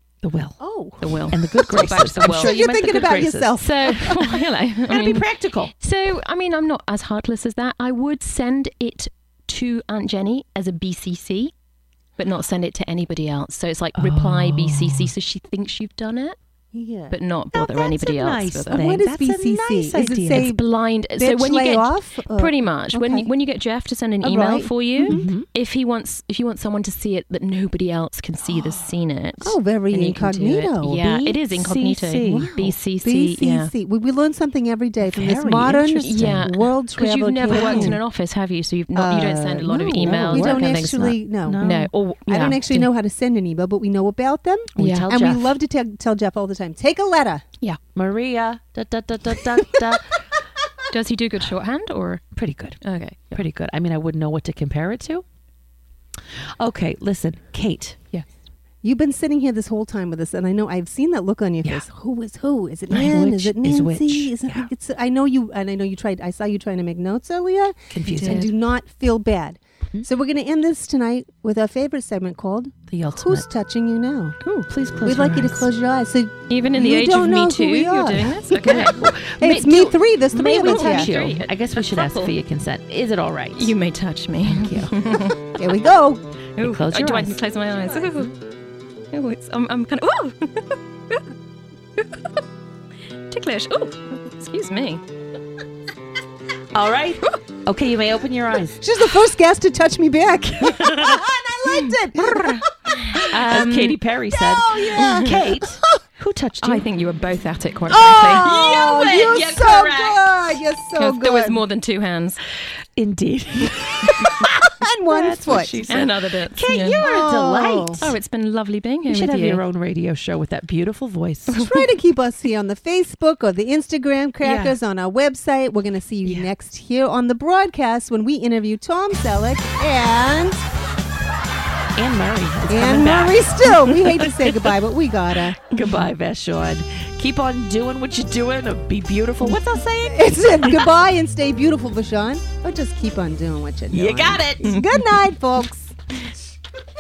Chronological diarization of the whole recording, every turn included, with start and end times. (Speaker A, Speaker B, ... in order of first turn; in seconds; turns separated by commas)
Speaker A: 0.2-0.6, Speaker B: 0.6-4.2, Speaker C: 1.0-2.6, Speaker A: 1.3-5.7, Speaker C: 3.6-5.3, Speaker C: 5.8-11.5, Speaker C: 12.2-16.4, Speaker A: 14.0-15.1, Speaker B: 16.7-17.2, Speaker C: 17.1-18.8, Speaker A: 17.5-20.6, Speaker B: 18.7-20.6, Speaker C: 20.3-33.7, Speaker B: 21.2-23.3, Speaker B: 24.2-25.3, Speaker A: 25.1-25.5, Speaker B: 29.4-31.4, Speaker A: 31.5-32.6, Speaker B: 32.2-38.0, Speaker A: 35.0-36.5, Speaker C: 36.0-42.9, Speaker A: 37.5-38.0, Speaker B: 38.9-47.4, Speaker A: 40.0-40.8, Speaker A: 41.5-41.9, Speaker A: 44.8-45.6, Speaker C: 44.8-45.1, Speaker A: 47.9-50.2, Speaker C: 50.9-52.2, Speaker A: 52.3-52.8, Speaker C: 52.8-53.4, Speaker A: 53.3-55.2, Speaker A: 56.2-58.0, Speaker B: 58.8-74.4, Speaker A: 62.9-64.7, Speaker A: 67.9-68.5, Speaker C: 68.2-68.5, Speaker A: 72.9-73.5, Speaker A: 74.6-75.7, Speaker B: 75.0-81.1, Speaker C: 76.5-78.9, Speaker A: 78.3-83.7, Speaker C: 80.5-82.3, Speaker C: 83.6-85.5, Speaker A: 84.4-84.9, Speaker B: 85.6-86.2, Speaker C: 86.6-88.4, Speaker A: 86.6-87.4, Speaker C: 89.1-91.2, Speaker C: 92.0-92.4, Speaker C: 93.3-95.0, Speaker A: 96.7-98.8, Speaker B: 98.8-103.5, Speaker A: 100.6-101.3, Speaker A: 102.2-102.7, Speaker C: 103.2-104.0, Speaker A: 103.2-106.9, Speaker B: 104.3-106.0, Speaker C: 105.0-105.4, Speaker C: 106.6-108.5, Speaker A: 107.9-110.4, Speaker B: 108.1-111.6, Speaker C: 111.0-112.4, Speaker A: 113.0-118.1, Speaker B: 113.8-115.9, Speaker C: 115.9-117.3, Speaker B: 117.0-118.0, Speaker C: 118.0-119.6, Speaker A: 119.1-121.7, Speaker B: 121.5-130.6, Speaker A: 124.4-124.8, Speaker A: 126.2-126.5, Speaker A: 132.0-134.8, Speaker B: 132.7-135.6, Speaker A: 135.6-140.9, Speaker B: 140.0-146.0, Speaker A: 143.9-144.9